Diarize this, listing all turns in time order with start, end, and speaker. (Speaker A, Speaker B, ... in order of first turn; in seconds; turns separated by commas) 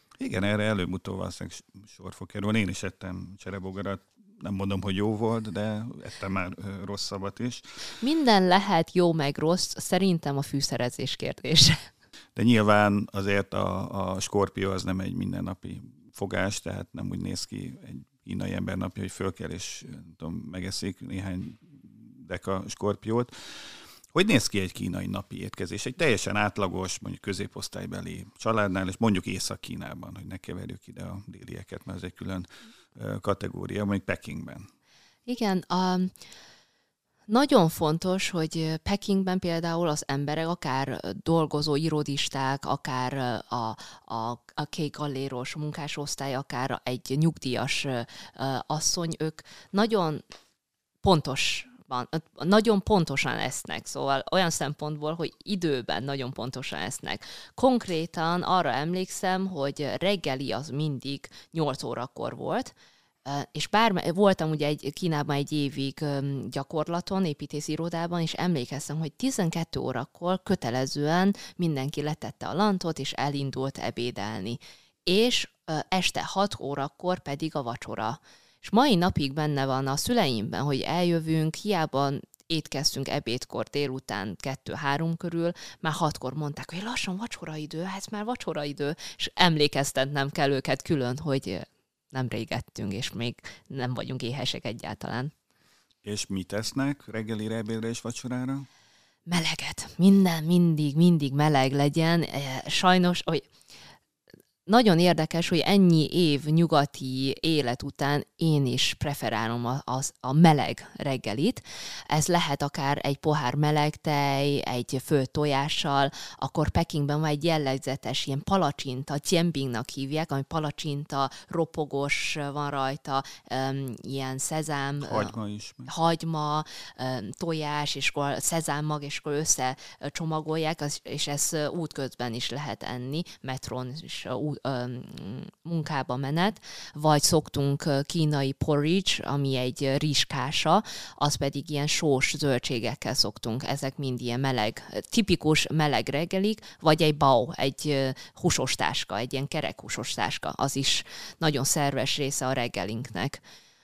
Speaker A: 0.2-7.6, Speaker B: 8.0-11.8, Speaker A: 12.4-23.3, Speaker A: 24.1-34.7, Speaker B: 35.3-36.1, Speaker B: 37.3-50.2, Speaker B: 51.0-62.7, Speaker B: 63.3-95.3, Speaker A: 96.0-98.7, Speaker B: 99.3-103.5, Speaker B: 104.7-125.3, Speaker A: 125.0-125.9, Speaker B: 125.9-153.4